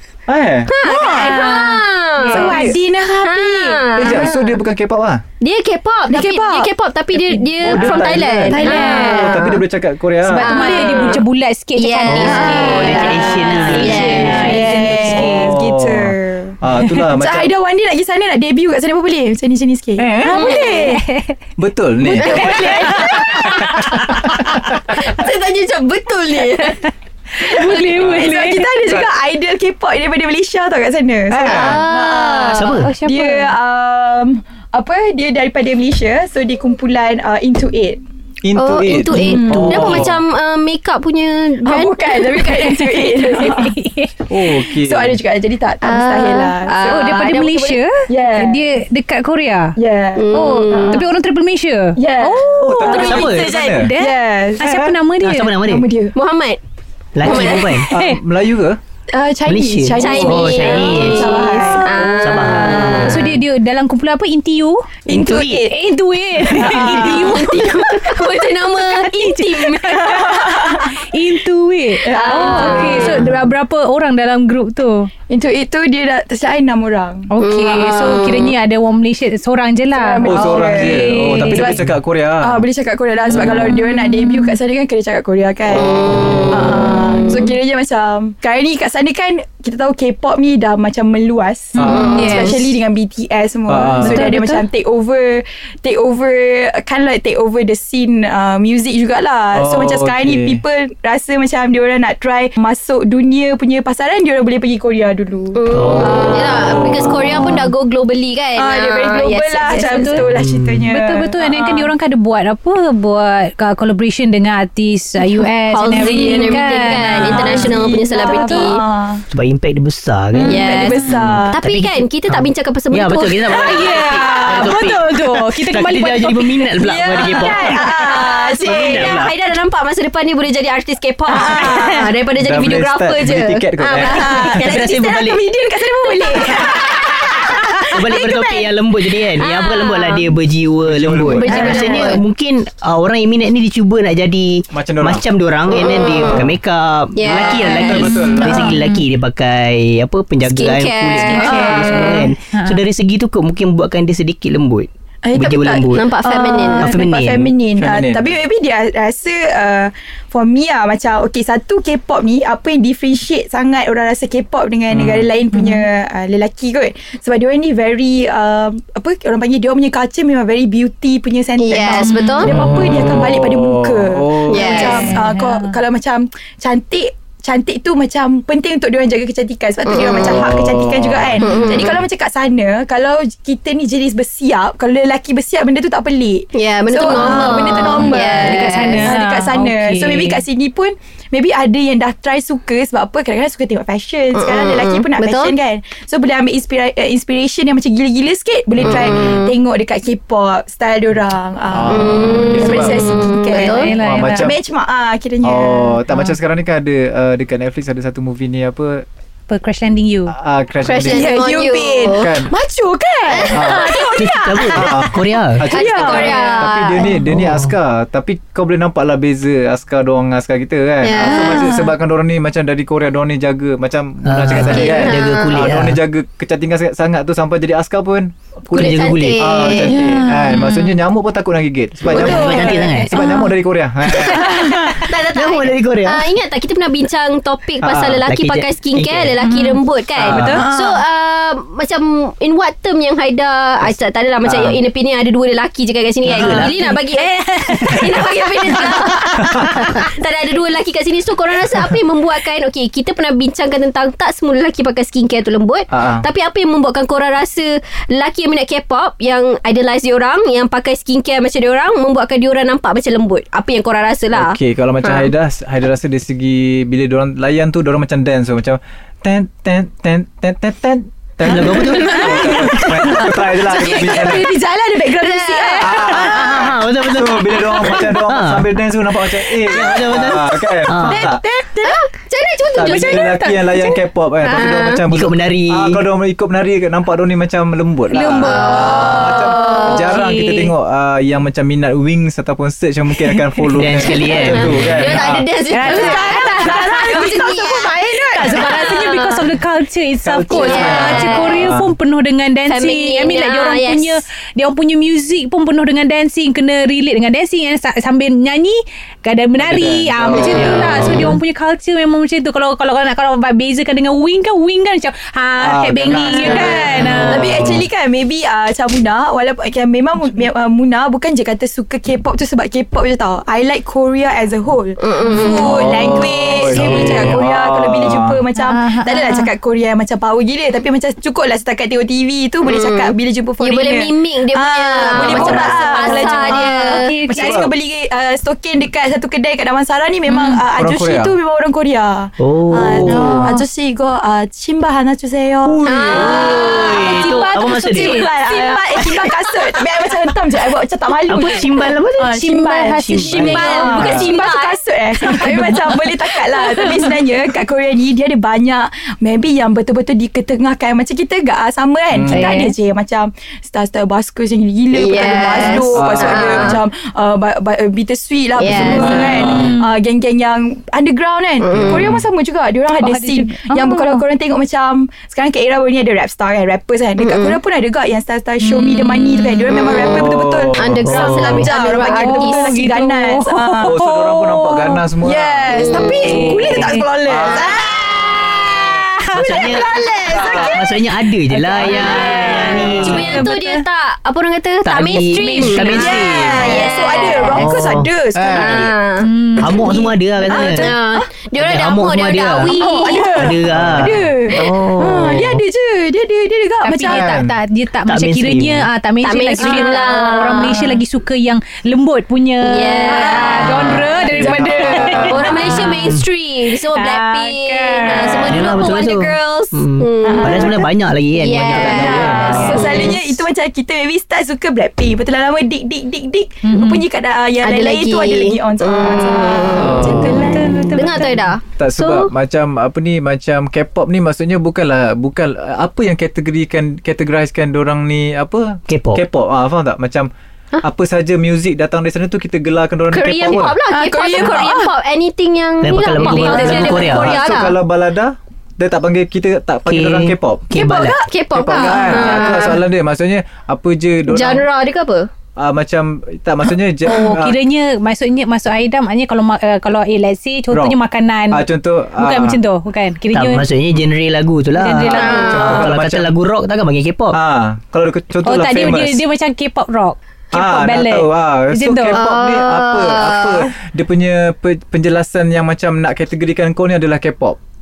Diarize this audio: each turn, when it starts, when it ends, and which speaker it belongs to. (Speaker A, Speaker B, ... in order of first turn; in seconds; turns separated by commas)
Speaker A: 0.3-0.7, Speaker B: 0.7-2.7, Speaker C: 0.8-3.9, Speaker D: 1.1-2.9, Speaker A: 2.3-2.8, Speaker B: 3.2-4.4, Speaker A: 4.0-5.2, Speaker B: 5.4-9.6, Speaker C: 6.1-6.7, Speaker C: 7.3-9.5, Speaker A: 7.6-10.5, Speaker D: 8.5-9.4, Speaker D: 10.2-15.6, Speaker B: 10.4-11.2, Speaker C: 10.6-11.1, Speaker B: 11.8-14.7, Speaker E: 12.1-14.9, Speaker C: 12.3-16.6, Speaker A: 15.0-17.5, Speaker C: 17.1-21.0, Speaker D: 20.0-21.4, Speaker A: 20.1-20.3, Speaker B: 20.3-20.9, Speaker A: 21.6-25.0, Speaker C: 22.1-24.1, Speaker D: 22.1-23.7, Speaker B: 22.4-23.3, Speaker B: 24.9-26.8, Speaker D: 27.4-28.7, Speaker C: 27.4-38.0, Speaker A: 27.9-29.1, Speaker A: 31.3-31.8, Speaker B: 31.4-32.8, Speaker E: 32.5-32.9, Speaker D: 32.8-33.5, Speaker A: 38.4-40.2, Speaker B: 38.5-42.4, Speaker C: 39.1-40.0, Speaker C: 41.6-43.8, Speaker D: 42.4-44.1, Speaker A: 44.3-45.2, Speaker C: 44.7-47.4, Speaker B: 45.8-47.8, Speaker D: 46.9-49.8, Speaker C: 48.1-48.6, Speaker C: 49.8-51.0, Speaker B: 50.1-51.0, Speaker D: 50.3-53.2, Speaker C: 52.0-53.3, Speaker A: 52.6-53.9, Speaker B: 52.9-53.9, Speaker E: 52.9-53.5, Speaker D: 53.7-55.6, Speaker C: 54.0-54.7, Speaker A: 54.6-54.9, Speaker E: 55.2-55.9, Speaker C: 55.6-56.1, Speaker B: 56.1-56.6, Speaker E: 57.1-57.9, Speaker B: 57.2-57.8, Speaker A: 57.9-58.8, Speaker D: 57.9-58.2, Speaker C: 59.1-62.9, Speaker E: 59.5-61.4, Speaker B: 59.9-63.3, Speaker D: 61.2-62.0, Speaker E: 62.2-63.3, Speaker D: 62.9-64.9, Speaker C: 65.1-65.8, Speaker E: 65.1-65.7, Speaker D: 65.7-67.7, Speaker C: 66.4-68.2, Speaker B: 66.7-70.2, Speaker D: 68.8-75.1, Speaker C: 69.9-71.0, Speaker C: 72.0-73.3, Speaker B: 72.1-73.3, Speaker C: 75.3-77.3, Speaker D: 77.3-81.8, Speaker B: 77.4-78.5, Speaker C: 79.9-81.9, Speaker A: 80.2-82.6, Speaker C: 82.4-86.0, Speaker D: 83.7-84.5, Speaker B: 85.7-87.5, Speaker C: 86.5-106.4, Speaker A: 91.8-92.2, Speaker B: 91.8-92.6, Speaker D: 92.1-92.6, Speaker A: 93.7-94.4, Speaker D: 94.0-94.6, Speaker A: 99.5-100.6, Speaker B: 105.5-110.2, Speaker E: 105.7-106.6, Speaker A: 106.6-107.3, Speaker C: 108.6-111.9, Speaker D: 109.7-110.3, Speaker E: 110.3-110.9, Speaker D: 110.9-118.7, Speaker B: 115.7-118.8, Speaker C: 115.9-119.2, Speaker E: 119.3-127.9, Speaker C: 120.3-121.6, Speaker B: 120.5-124.5, Speaker D: 123.5-127.8, Speaker C: 126.8-129.2, Speaker B: 127.7-135.0, Speaker E: 128.6-129.3, Speaker C: 131.3-132.1, Speaker D: 131.3-132.0, Speaker A: 132.4-134.6, Speaker C: 133.9-138.7, Speaker E: 134.5-135.4, Speaker E: 137.9-156.1, Speaker B: 139.4-140.3, Speaker A: 140.8-141.6, Speaker B: 141.3-142.2, Speaker C: 141.5-142.1, Speaker D: 141.5-141.9, Speaker A: 144.7-145.2, Speaker B: 145.7-146.5, Speaker A: 146.2-146.5, Speaker B: 147.1-148.2, Speaker A: 147.5-148.7, Speaker D: 147.7-149.0, Speaker B: 150.4-152.3, Speaker D: 151.2-152.8, Speaker C: 151.4-152.3, Speaker C: 155.2-206.0, Speaker B: 155.9-157.0, Speaker E: 156.8-157.5, Speaker A: 157.8-158.4, Speaker A: 164.9-165.3, Speaker D: 165.5-165.9, Speaker B: 171.6-172.5, Speaker D: 171.9-172.7, Speaker A: 172.4-175.1, Speaker B: 174.5-175.1, Speaker D: 174.6-175.8, Speaker B: 179.8-180.5, Speaker A: 180.1-181.9, Speaker B: 181.4-182.0, Speaker B: 186.5-189.2, Speaker D: 187.1-190.4, Speaker B: 194.3-195.5, Speaker B: 198.8-199.5, Speaker A: 201.7-203.1, Speaker B: 201.9-203.9, Speaker D: 203.5-204.5, Speaker A: 203.9-204.6, Speaker A: 205.4-209.0, Speaker D: 209.5-210.3, Speaker A: 210.3-211.5, Speaker B: 210.8-212.3, Speaker C: 211.1-215.1, Speaker A: 212.1-212.5, Speaker B: 213.3-214.1, Speaker A: 213.5-213.9, Speaker D: 213.7-214.6, Speaker E: 214.2-215.7, Speaker A: 214.7-234.8, Speaker C: 215.7-216.7, Speaker B: 215.7-217.1, Speaker E: 217.3-217.7, Speaker B: 221.0-221.7, Speaker D: 221.2-221.9, Speaker E: 224.2-226.0, Speaker B: 224.6-225.7, Speaker E: 228.7-229.7, Speaker B: 228.7-230.0, Speaker D: 229.9-231.0, Speaker C: 232.1-233.0, Speaker E: 232.1-233.2, Speaker B: 232.1-232.9, Speaker D: 232.3-233.5, Speaker B: 234.4-265.3, Speaker E: 234.8-236.3, Speaker A: 237.8-238.2, Speaker E: 238.2-239.3, Speaker D: 239.4-241.0, Speaker A: 240.2-240.6, Speaker A: 244.4-244.8, Speaker E: 246.3-246.8, Speaker D: 246.4-250.0, Speaker A: 249.4-249.7, Speaker A: 255.9-256.2, Speaker A: 264.3-274.5, Speaker E: 271.4-273.1, Speaker C: 271.9-276.7, Speaker B: 275.2-276.2, Speaker A: 275.8-281.4, Speaker E: 276.2-278.7, Speaker E: 279.5-281.3, Speaker D: 281.1-281.9, Speaker B: 281.8-283.5, Speaker A: 282.7-295.4, Speaker D: 282.8-283.9, Speaker B: 284.5-285.0, Speaker E: 285.1-286.0, Speaker D: 288.1-290.7, Speaker B: 288.4-290.1, Speaker E: 293.7-295.2, Speaker B: 294.4-299.4, Speaker D: 295.7-317.6, Speaker C: 295.8-298.8, Speaker A: 300.2-301.9, Speaker B: 300.5-301.6, Speaker B: 302.7-304.2, Speaker A: 309.6-311.2, Speaker E: 310.4-311.4, Speaker A: 315.6-317.8, Speaker C: 316.1-384.0, Speaker B: 325.0-326.1, Speaker A: 325.5-328.4, Speaker D: 326.6-327.2, Speaker D: 328.6-329.5, Speaker B: 332.7-337.1, Speaker A: 335.1-335.9, Speaker D: 335.9-337.6, Speaker A: 337.3-337.7, Speaker D: 340.3-340.6, Speaker A: 340.7-341.3, Speaker E: 342.4-343.5, Speaker D: 343.0-343.6, Speaker A: 345.6-346.4, Speaker B: 345.8-347.5, Speaker E: 346.1-348.2, Speaker D: 346.8-348.3, Speaker B: 348.3-348.6, Speaker E: 351.3-354.0, Speaker D: 352.3-354.3, Speaker B: 353.4-354.8, Speaker A: 354.0-354.3, Speaker D: 355.2-357.2, Speaker A: 362.1-362.6, Speaker D: 362.3-362.8, Speaker B: 364.9-366.8, Speaker A: 365.9-366.8, Speaker B: 368.6-369.4, Speaker A: 368.7-369.7, Speaker D: 368.9-369.9, Speaker B: 371.6-372.1, Speaker A: 371.7-372.2, Speaker D: 373.0-374.2, Speaker B: 377.2-377.6, Speaker D: 378.6-379.9, Speaker A: 379.9-381.0, Speaker B: 380.8-382.8, Speaker E: 381.0-381.7, Speaker D: 381.9-385.0, Speaker A: 383.8-387.8, Speaker C: 385.2-388.1, Speaker B: 385.7-386.5, Speaker D: 386.2-389.8, Speaker E: 389.3-393.4, Speaker C: 389.3-390.9, Speaker A: 390.3-390.8, Speaker D: 391.5-393.8, Speaker C: 391.8-393.0, Speaker A: 392.7-393.2, Speaker B: 393.0-397.8, Speaker E: 394.8-398.1, Speaker D: 395.2-396.5, Speaker C: 395.9-398.9, Speaker A: 398.3-398.9, Speaker B: 398.5-399.3, Speaker D: 399.2-400.0, Speaker E: 399.6-400.9, Speaker C: 399.6-401.3, Speaker B: 400.4-403.3, Speaker E: 401.6-405.6, Speaker C: 402.7-407.4, Speaker A: 403.7-404.2, Speaker D: 406.8-415.9, Speaker A: 407.0-407.6, Speaker E: 408.1-408.9, Speaker B: 409.2-410.9, Speaker C: 409.6-410.9, Speaker B: 412.6-414.0, Speaker C: 413.1-415.8, Speaker A: 413.8-415.6, Speaker B: 415.1-420.8, Speaker E: 415.9-416.2, Speaker D: 416.9-418.6, Speaker E: 418.4-423.0, Speaker C: 420.2-420.9, Speaker B: 421.4-423.2, Speaker C: 421.6-431.2, Speaker D: 422.4-423.1, Speaker D: 426.6-427.1, Speaker B: 427.6-430.3, Speaker A: 429.8-430.6, Speaker D: 430.1-431.4, Speaker B: 430.9-432.3, Speaker A: 431.8-440.3, Speaker E: 438.9-439.2, Speaker A: 440.8-443.8, Speaker B: 443.1-447.8, Speaker C: 443.9-444.9, Speaker E: 445.8-447.4, Speaker C: 446.2-447.2, Speaker A: 446.7-450.7, Speaker E: 449.9-451.2, Speaker C: 450.7-452.7, Speaker B: 451.2-452.8, Speaker A: 451.5-454.6, Speaker B: 454.3-455.3, Speaker A: 455.6-457.6, Speaker D: 457.1-463.7, Speaker A: 460.7-461.0, Speaker A: 461.5-462.6, Speaker E: 463.3-467.4, Speaker D: 464.7-465.8, Speaker B: 465.1-465.8, Speaker A: 465.4-466.3, Speaker A: 467.3-469.2, Speaker D: 468.4-472.2, Speaker A: 470.5-477.6, Speaker B: 472.1-473.7